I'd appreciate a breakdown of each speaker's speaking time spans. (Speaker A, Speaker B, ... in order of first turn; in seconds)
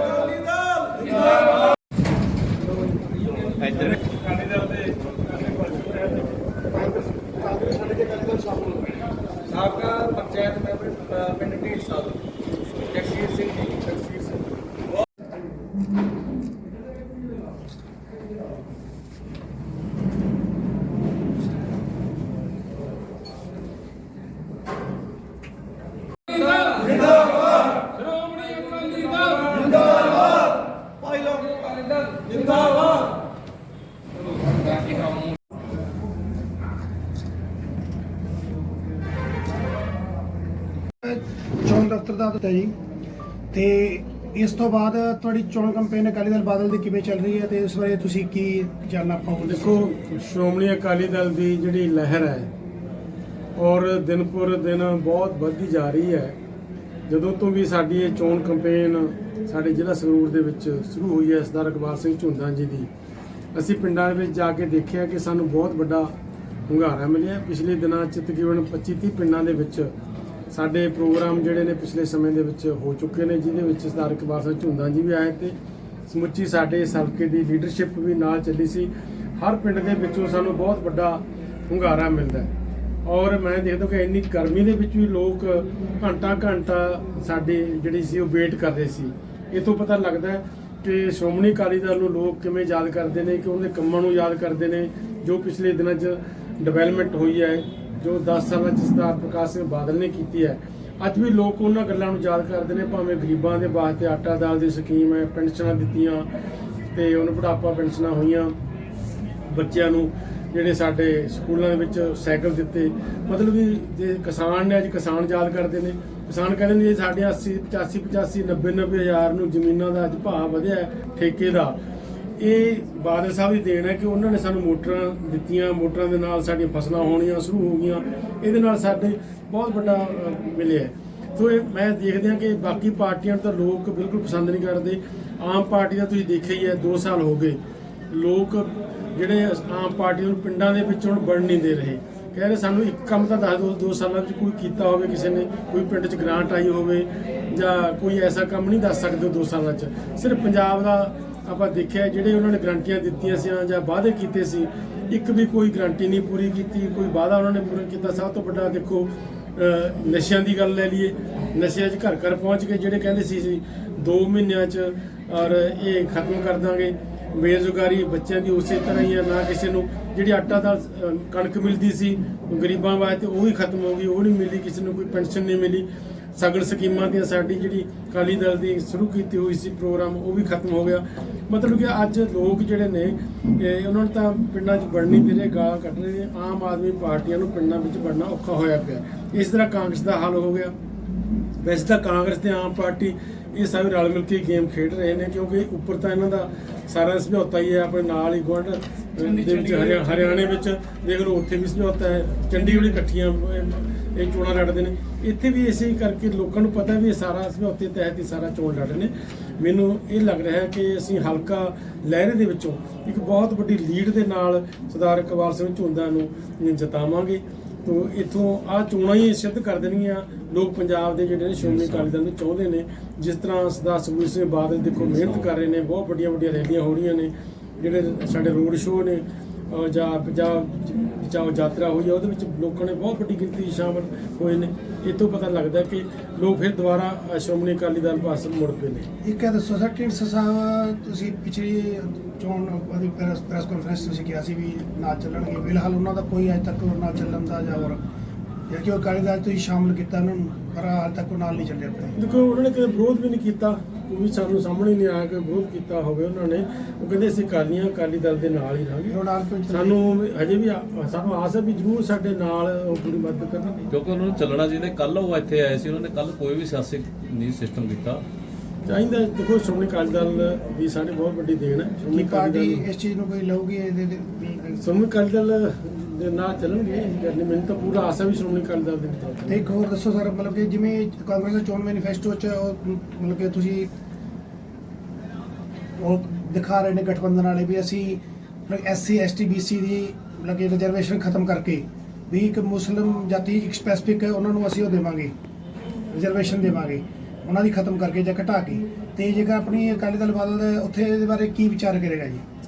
Speaker A: 4.0-6.3, 10.0-12.1, 12.9-14.1, 49.4-52.5, 53.5-56.4, 57.1-62.9, 63.5-66.1, 66.7-69.9, 70.5-75.5, 76.1-82.5, 83.0-106.2, 106.9-108.5, 109.4-121.8, 122.4-137.6, 138.1-190.7, 191.6-239.1, 252.2-259.2, 259.7-263.9, 268.8-272.8, 274.8-279.7
Speaker B: 6.7-9.0, 41.0-42.7, 43.5-49.9, 239.2-248.0, 248.7-252.2, 259.1-260.0, 272.1-274.8, 279.5-283.9, 286.0-295.3, 296.1-302.4
Speaker C: 221.6-222.1, 225.0-225.5, 263.9-268.2